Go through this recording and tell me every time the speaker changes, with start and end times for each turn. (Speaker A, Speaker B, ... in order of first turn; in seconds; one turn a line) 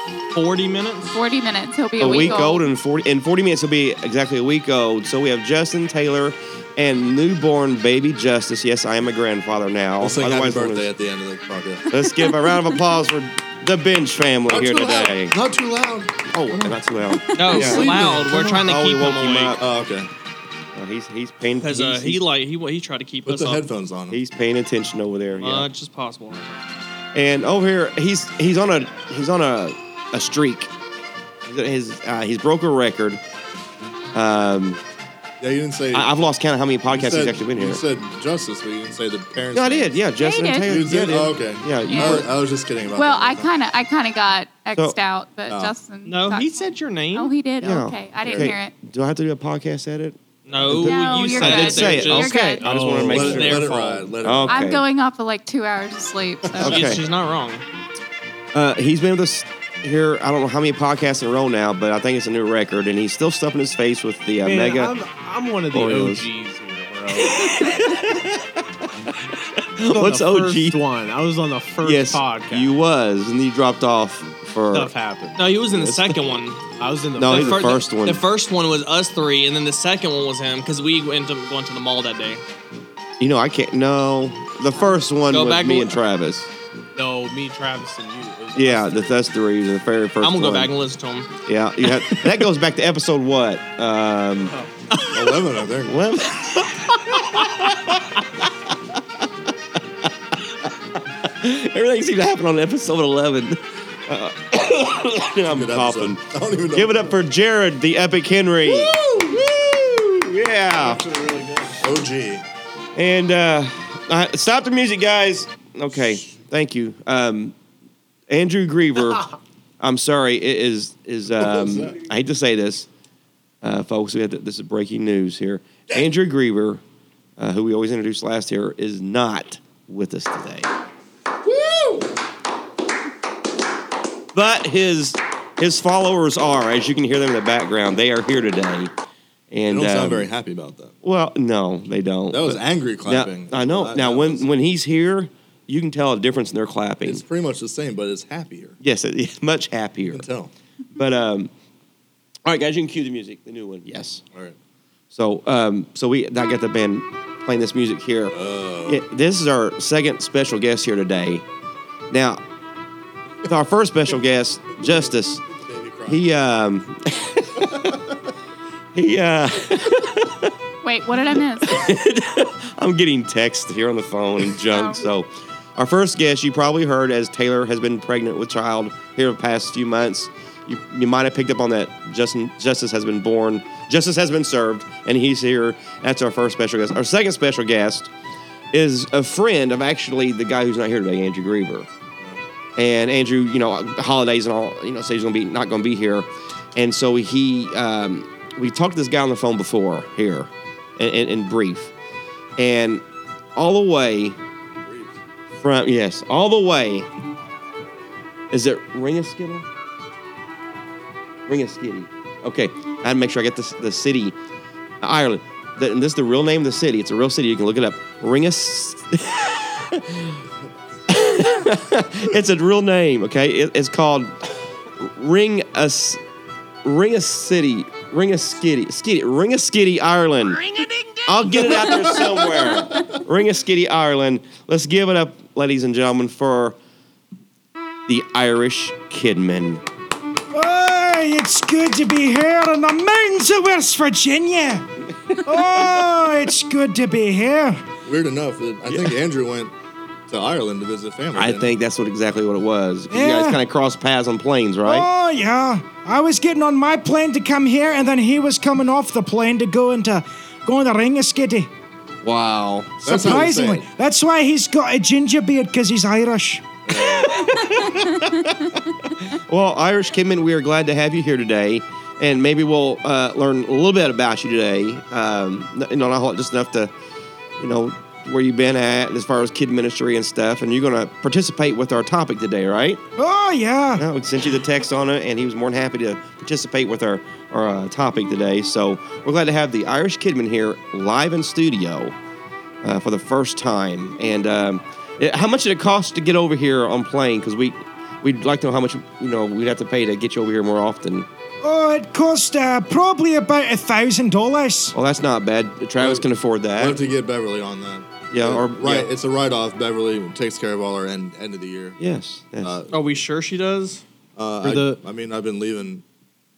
Speaker A: 0.3-1.1
Speaker B: 1.1-2.7
Speaker C: 2.0-10.9
Speaker D: 10.0-11.9
Speaker C: 11.9-15.3
Speaker B: 12.2-12.8
Speaker D: 14.5-16.8
Speaker C: 16.3-19.6
Speaker A: 17.4-19.6
Speaker D: 17.4-18.5
Speaker D: 19.6-20.1
Speaker C: 20.7-22.2
Speaker A: 21.6-23.7
Speaker D: 23.2-24.2
Speaker C: 24.1-25.7
Speaker A: 25.4-26.6
Speaker C: 27.1-30.7
Speaker C: 31.4-33.2
Speaker C: 34.1-34.8
Speaker D: 35.4-36.1
Speaker C: 35.9-37.8
Speaker D: 36.9-39.9
Speaker C: 39.5-42.3
Speaker B: 40.2-40.8
Speaker D: 40.6-43.5
Speaker B: 41.8-42.1
Speaker B: 42.9-48.7
Speaker D: 45.5-45.7
Speaker A: 46.0-47.3
Speaker C: 47.6-53.7
Speaker D: 48.2-48.5
Speaker A: 50.5-54.1
Speaker B: 50.7-52.6
Speaker E: 52.6-53.6
Speaker D: 53.1-54.8
Speaker C: 54.2-54.8
Speaker B: 54.5-56.8
Speaker A: 56.6-57.6
Speaker C: 56.6-57.0
Speaker C: 58.5-65.0
Speaker E: 64.4-67.6
Speaker C: 65.7-66.3
Speaker C: 67.2-68.4
Speaker C: 69.8-70.8
Speaker E: 69.8-72.7
Speaker C: 71.8-74.9
Speaker E: 74.7-75.5
Speaker A: 75.4-76.6
Speaker C: 75.7-76.2
Speaker E: 76.7-77.8
Speaker C: 77.2-78.2
Speaker A: 77.2-82.4
Speaker C: 83.2-86.5
Speaker A: 85.3-86.0
Speaker E: 86.9-89.2
Speaker C: 88.5-90.7
Speaker A: 90.2-91.3
Speaker C: 91.5-94.5
Speaker D: 95.1-96.0
Speaker C: 95.8-97.9
Speaker C: 100.0-109.0
Speaker D: 105.5-107.1
Speaker D: 108.7-109.8
Speaker C: 109.8-111.0
Speaker E: 110.8-111.6
Speaker D: 111.6-112.4
Speaker C: 112.9-117.5
Speaker C: 118.3-119.2
Speaker C: 119.8-122.9
Speaker D: 121.5-121.8
Speaker C: 123.6-126.8
Speaker C: 127.4-130.7
Speaker D: 131.4-132.1
Speaker C: 134.3-138.9
Speaker C: 139.5-140.3
Speaker D: 139.7-140.9
Speaker C: 141.0-147.2
Speaker D: 142.3-144.5
Speaker D: 147.0-148.8
Speaker C: 148.8-150.2
Speaker D: 150.1-150.5
Speaker C: 150.9-151.5
Speaker C: 152.4-154.2
Speaker C: 155.1-161.4
Speaker D: 158.3-159.0
Speaker C: 162.1-162.4
Speaker C: 163.4-165.4
Speaker D: 165.5-166.2
Speaker C: 166.1-168.0
Speaker D: 167.7-168.0
Speaker C: 168.9-170.5
Speaker B: 170.8-171.9
Speaker C: 171.6-188.1
Speaker B: 174.7-175.0
Speaker C: 188.7-191.9
Speaker C: 192.8-201.9
Speaker C: 202.6-203.0
Speaker C: 203.5-204.4
Speaker D: 204.8-205.2
Speaker C: 205.6-207.1
Speaker C: 208.5-209.7
Speaker C: 211.5-214.3
Speaker C: 215.0-220.4
Speaker C: 221.1-226.2
Speaker C: 226.8-236.8
Speaker D: 231.6-233.1
Speaker C: 238.1-239.8
Speaker F: 240.5-244.8
Speaker F: 245.3-247.8
Speaker D: 248.0-249.7
Speaker C: 248.8-249.1
Speaker D: 250.3-251.7
Speaker C: 251.3-255.1
Speaker F: 253.1-253.6
Speaker F: 254.8-261.7
Speaker C: 262.2-263.0
Speaker D: 263.0-263.9
Speaker F: 263.0-266.7
Speaker D: 266.9-267.5
Speaker C: 267.2-276.9
Speaker C: 277.6-283.0
Speaker F: 283.2-284.0
Speaker C: 283.9-292.1
Speaker C: 292.8-301.3
Speaker F: 301.6-304.9
Speaker C: 304.9-307.0
Speaker D: 306.0-306.2
Speaker D: 306.8-312.0
Speaker C: 308.3-309.1
Speaker C: 312.0-312.8
Speaker D: 312.6-312.9
Speaker A: 312.9-314.0
Speaker D: 314.4-316.0
Speaker E: 314.6-315.0